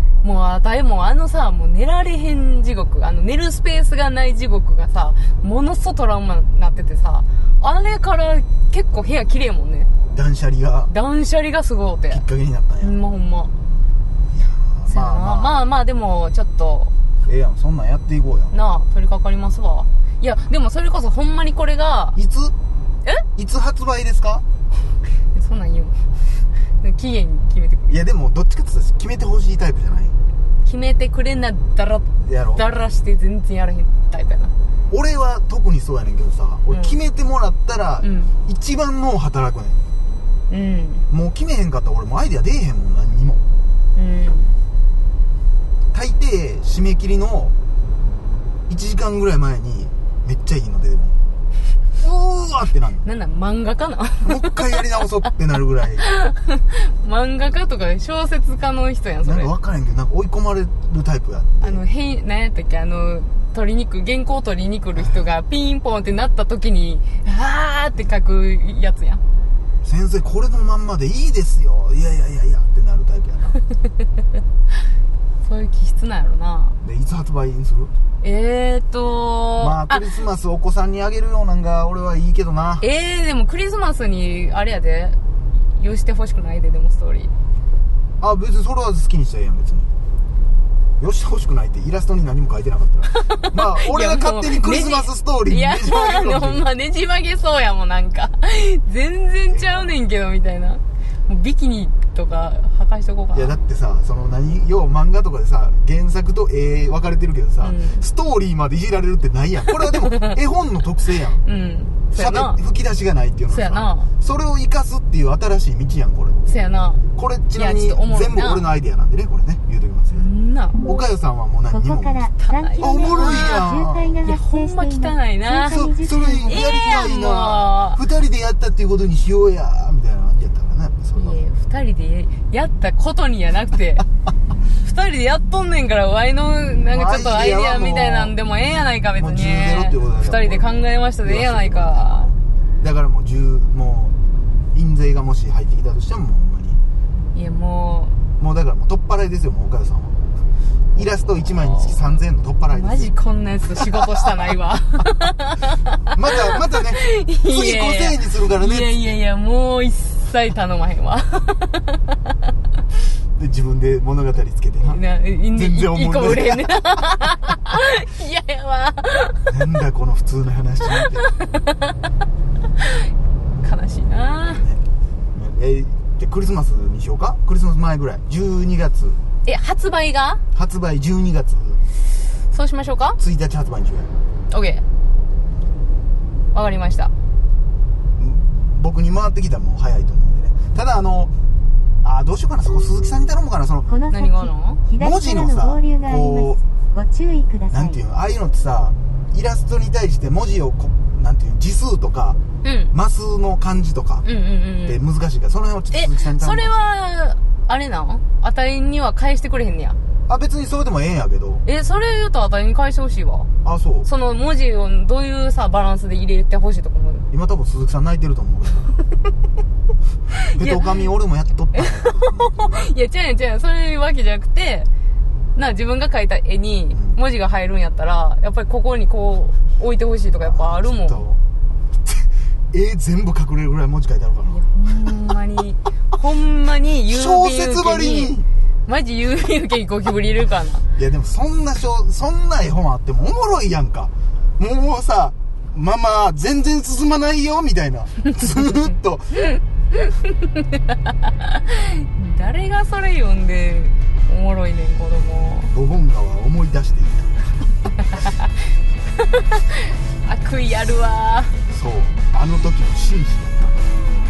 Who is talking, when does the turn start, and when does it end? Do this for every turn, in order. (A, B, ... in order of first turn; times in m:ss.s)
0:00.2-0:09.9 A
0:10.1-0:10.9 B
0:10.9-0:12.2 A
0:12.1-0:13.0 B
0:12.8-0:13.5 A
0:14.3-0:15.6 B
0:14.9-0:16.9 A
0:17.2-0:18.6 B
0:18.5-0:22.2 A
0:22.2-0:22.5 B
0:23.4-0:24.4 B
0:25.3-0:26.1 A
0:26.8-0:28.0 A
0:27.9-0:30.1 B
0:30.6-0:34.5 A
0:32.2-0:32.7 B
0:34.9-0:39.8 B
0:36.7-0:37.0 A
0:38.0-0:38.3 A
0:40.5-0:41.0 A
0:41.1-0:43.4 B
0:44.0-0:44.6 A
0:45.9-0:47.5 B
0:48.7-0:51.2 B
0:52.0-0:53.0 B
0:53.0-0:54.6 A
0:54.2-0:56.0 B
0:56.0-0:59.5 A
0:59.2-1:01.8 B
1:01.6-1:09.2 A
1:04.9-1:05.3 B
1:09.8-1:13.6 B
1:15.4-1:16.8 A
1:16.8-1:17.9 B
1:18.2-1:20.0 A
1:19.6-1:22.8 B
1:22.8-1:25.2 A
1:25.7-1:27.3 A
1:28.2-1:29.9 B
1:31.0-1:36.6 B
1:33.1-1:43.5 A
1:39.5-1:40.0 B
1:43.3-1:51.4 B
1:47.6-1:48.0 A
1:50.1-1:50.4 A
1:51.4-1:52.6 A
1:52.1-1:56.4 B
1:53.5-1:54.1 A
1:56.4-1:57.0 A
1:57.1-2:00.3 B
1:57.5-1:58.6 A
2:00.1-2:00.8 A
2:00.8-2:04.2 B
2:01.7-2:06.7 C
2:02.4-2:08.0 A
2:05.7-2:11.4 B
2:11.1-2:14.0 A
2:14.8-2:22.3 A
2:16.9-2:18.4 B
2:19.2-2:24.1 B
2:24.7-2:26.8 B
2:27.3-2:28.2 A
2:28.4-2:30.1 B
2:31.0-2:33.1 B
2:31.0-2:36.0 A
2:34.0-2:34.5 B
2:36.1-2:38.9 B
2:36.5-2:42.1 A
2:43.4-2:45.0 B
2:44.8-2:49.5 A
2:45.5-2:47.1 B
2:49.5-2:51.3 B
2:51.0-2:51.9 A
2:52.8-2:53.1 A
2:53.6-2:54.6 A
2:54.5-2:54.8 B
2:55.3-2:59.2 B
2:59.4-3:00.4 A
3:00.5-3:01.8 B
3:02.5-3:03.2 A
3:03.2-3:04.1 B
3:04.5-3:04.8 A
3:06.5-3:07.1 A
3:08.2-3:11.3 B
3:12.0-3:13.9 B
3:13.9-3:18.0 C
3:14.1-3:14.8 A
3:15.0-3:16.6 B
3:17.7-3:22.4 B
3:22.6-3:22.9 A
3:22.9-3:24.2 B
3:24.2-3:25.0 A
3:24.8-3:26.9 B
3:25.9-3:30.0 A
3:30.3-3:31.6 B
3:31.6-3:33.5 A
3:33.6-3:34.1 B
3:34.0-3:37.2 A
3:37.3-3:38.9 B
3:40.3-3:40.9 A
3:40.5-3:42.9 B
3:41.7-3:44.9 A
3:45.6-3:51.2 A
3:46.9-3:47.2 B
3:50.4-3:51.4 B
3:52.0-3:54.6 B
3:54.5-3:58.3 A
3:57.1-3:58.5 B
3:58.8-4:00.8 A
4:00.9-4:09.5 B
4:09.5-4:15.7 A
4:15.7-4:17.5 B
4:19.2-4:21.6 A
4:21.7-4:23.9 B